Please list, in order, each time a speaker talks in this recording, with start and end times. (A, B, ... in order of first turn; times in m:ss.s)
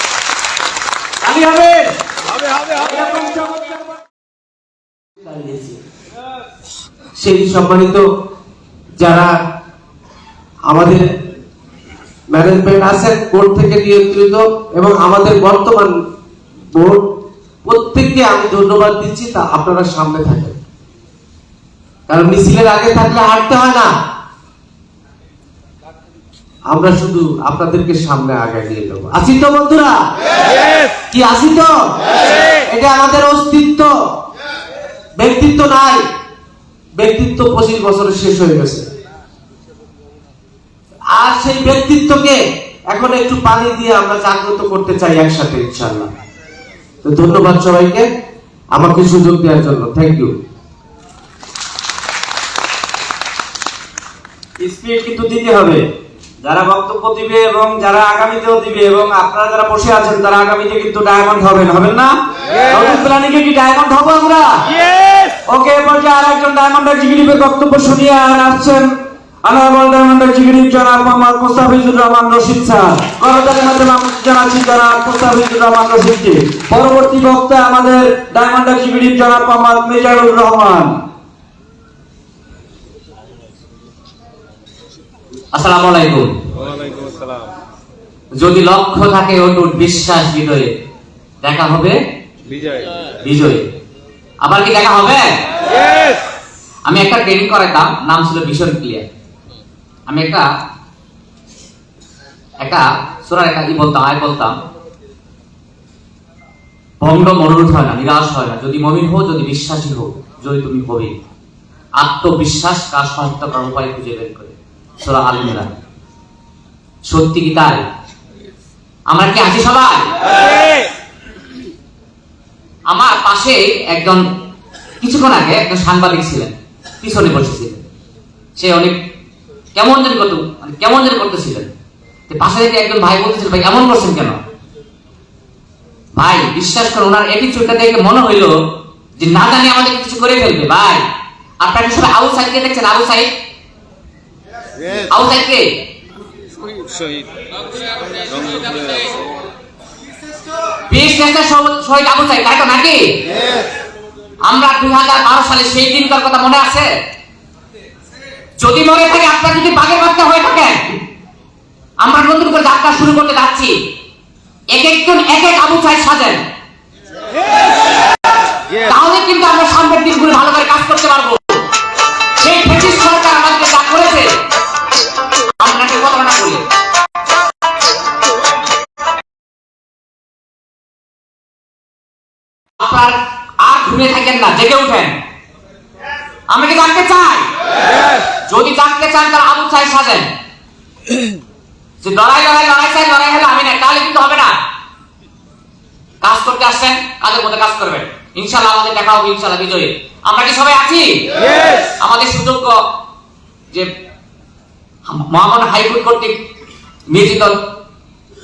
0:01.2-0:01.8 A
0:02.8-0:03.8 A
0:05.2-0:05.8 B
0:07.2-0:08.0 B
0:09.0-0:09.3 B
0:10.7-0:11.1 B
0:12.3-0:15.9 B
0:16.7-0:17.1 B
0:17.6-0:20.6 B
0:22.1-0:23.9 B
0:26.7-0:30.0 B
0:31.1-0:33.9 B
0:35.2-0:36.0 B
0:37.0-0:38.9 B
0:41.1-0:42.4 B
0:42.9-0:46.1 B
0:47.0-0:48.0 B
0:48.7-0:50.3 B
0:54.6-0:55.8 A
0:56.4-1:04.5 A
1:05.5-1:08.9 A
1:09.4-1:21.0 A
1:25.5-1:26.3 C
1:26.5-1:27.6 D
1:28.4-1:30.7 C
1:31.4-1:31.9 C
1:32.5-1:33.0 D
1:33.2-1:33.7 C
1:34.4-1:35.3 C
1:36.9-1:39.0 C
1:40.1-1:40.5 C
1:42.6-1:44.5 C
1:47.0-1:51.1 C
1:52.0-1:55.7 C
1:57.1-1:57.8 C
1:59.1-2:00.1 C
2:02.9-2:04.2 C
2:05.0-2:07.8 C
2:08.6-2:09.0 C
2:09.7-2:11.7 C
2:12.3-2:14.4 C
2:16.2-2:18.5 C
2:19.2-2:21.0 C
2:21.6-2:23.3 C
2:25.1-2:25.6 C
2:26.7-2:27.2 D
2:28.3-2:29.1 D
2:30.9-2:33.1 C
2:34.4-2:36.9 C
2:38.6-2:41.0 C
2:42.0-2:43.7 C
2:44.7-2:46.4 C
2:48.8-2:51.6 C
2:52.4-2:54.3 C
2:55.6-2:56.6 C
3:02.8-3:05.2 C
3:06.5-3:07.5 C
3:08.5-3:10.3 C
3:12.0-3:14.5 C
3:16.2-3:21.4 C
3:22.0-3:22.8 C
3:25.0-3:26.4 C
3:27.1-3:27.6 C